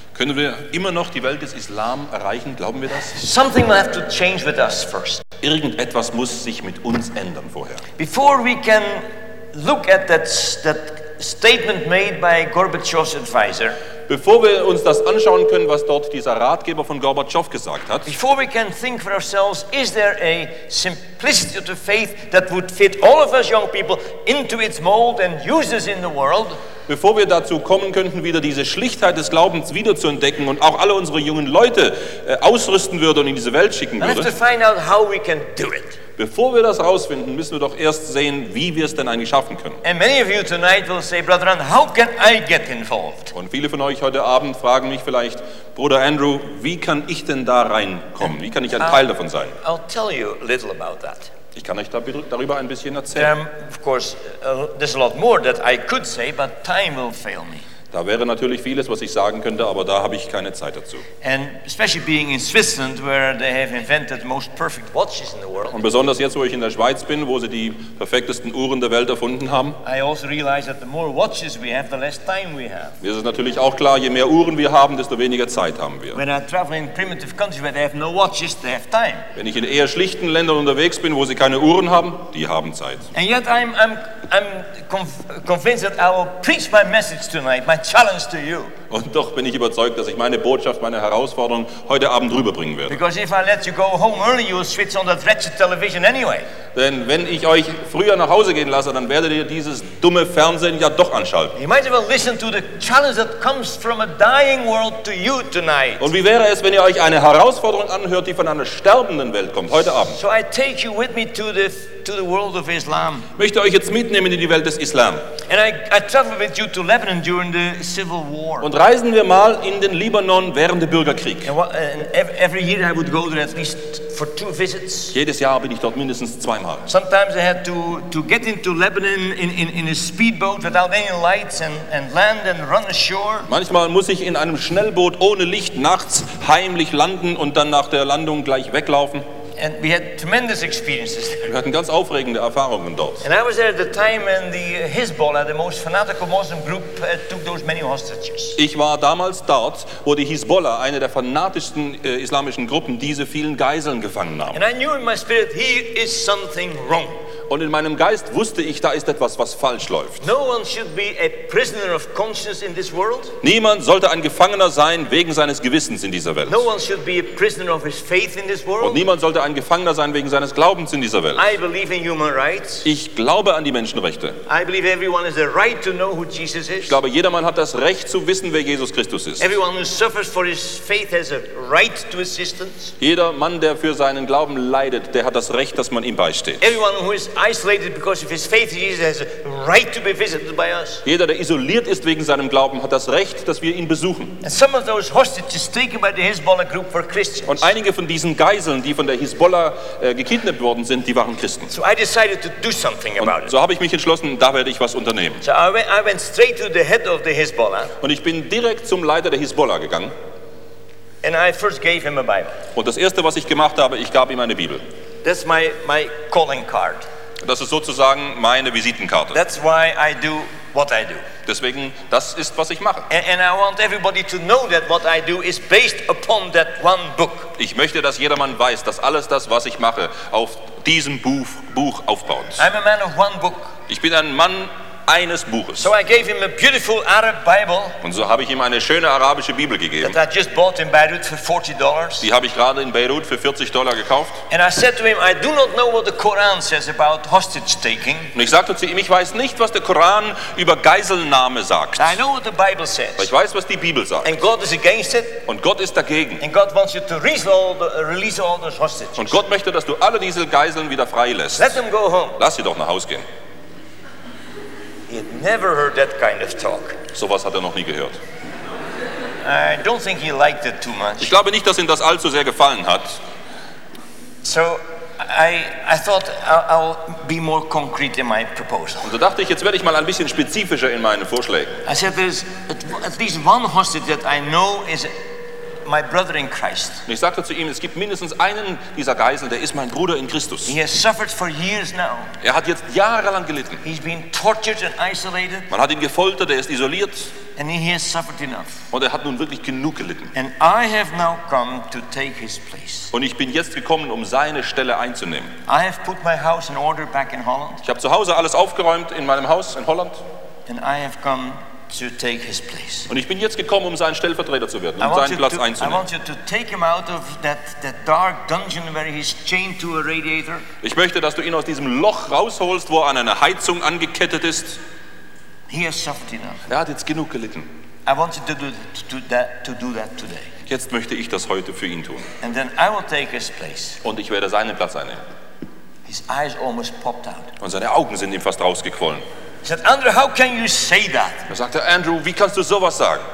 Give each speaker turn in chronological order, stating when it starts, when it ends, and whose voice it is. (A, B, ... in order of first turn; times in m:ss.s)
0:00.1-0:03.2 A
0:03.1-0:05.2 B
0:05.4-0:07.8 A
0:08.0-0:13.8 B
0:14.1-0:18.1 A
0:18.0-0:26.6 B
0:26.9-0:34.3 A
0:34.0-0:36.0 B
0:36.2-0:39.8 A
0:39.8-0:43.3 B
0:43.3-0:49.5 A
0:48.8-0:49.0 B
0:49.6-0:51.3 B
0:51.5-0:53.3 A
0:53.2-0:57.6 B
0:57.9-1:01.1 A
1:01.2-1:05.8 B
1:05.7-1:09.8 A
1:09.8-1:13.0 B
1:13.0-1:16.2 A
1:16.1-1:19.3 B
1:19.4-1:23.1 A
1:23.1-1:28.7 B
1:28.9-1:33.0 A
1:32.9-1:36.5 B
1:36.7-1:41.6 A
1:41.6-1:46.1 B
1:46.0-1:50.2 A
1:50.1-1:53.3 B
1:53.4-1:55.3 A
1:55.5-1:58.7 B
1:58.6-2:01.5 A
2:01.4-2:05.2 B
2:05.1-2:06.9 A
2:06.9-2:13.5 B
2:13.5-2:19.2 A
2:19.6-2:21.5 B
2:21.5-2:23.2 A
2:23.2-2:28.6 B
2:28.6-2:34.6 A
2:34.5-2:37.2 B
2:37.5-2:40.2 A
2:40.2-2:43.4 B
2:43.4-2:46.7 A
2:46.5-2:49.0 B
2:48.8-2:51.4 A
2:51.4-2:52.9 B
2:52.8-2:54.4 A
2:54.5-2:57.0 B
2:56.9-2:59.4 A
2:59.4-3:02.9 B
3:03.0-3:06.6 A
3:06.6-3:11.0 B
3:11.0-3:14.4 A
3:14.4-3:17.7 B
3:17.5-3:21.7 A
3:21.7-3:23.5 B
3:23.2-3:25.4 A
3:25.4-3:27.9 B
3:28.0-3:30.1 A
3:31.2-3:32.6 B
3:32.8-3:34.8 A
3:35.2-3:37.1 B
3:37.4-3:39.4 A
3:39.3-3:41.2 B
3:41.4-3:43.1 A
3:43.1-3:47.5 B
3:47.6-3:52.7 A
3:52.6-3:53.7 B
3:53.9-3:55.9 A
3:55.8-3:58.0 B
3:58.0-4:00.2 A
4:00.0-4:02.3 B
4:02.2-4:04.4 A
4:04.5-4:08.3 B
4:08.3-4:12.2 A
4:12.0-4:13.3 B
4:13.2-4:14.4 A
4:14.2-4:15.4 B
4:15.5-4:16.4 A
4:16.4-4:19.4 B
4:19.2-4:21.8 A
4:21.6-4:22.4 B
4:22.4-4:23.2 A
4:25.1-4:27.0 B
4:27.1-4:28.2 A
4:29.4-4:31.3 B
4:31.2-4:33.2 A
4:34.4-4:39.1 B
4:39.0-4:41.8 A
4:41.8-4:45.1 B
4:45.8-4:47.0 B
4:47.1-4:50.7 A
4:50.6-4:52.3 B
4:52.4-4:53.8 A
4:53.8-4:55.7 B
4:55.7-4:57.3 A
4:57.6-4:58.8 B
4:58.9-5:00.3 A
5:00.3-5:03.1 B
5:03.1-5:05.5 A
5:05.7-5:07.8 B
5:07.8-5:10.2 A
5:10.7-5:13.1 B
5:13.1-5:16.0 A
5:15.0-5:20.6 B
5:20.8-5:24.8 A
5:25.7-5:26.6 B
5:26.7-5:27.7 A
5:28.1-5:30.5 B
5:30.7-5:32.3 A
5:32.4-5:34.0 B
5:34.0-5:35.2 A
5:36.1-5:37.5 B
5:37.6-5:39.2 A
5:39.6-5:41.5 B
5:41.5-5:43.2 A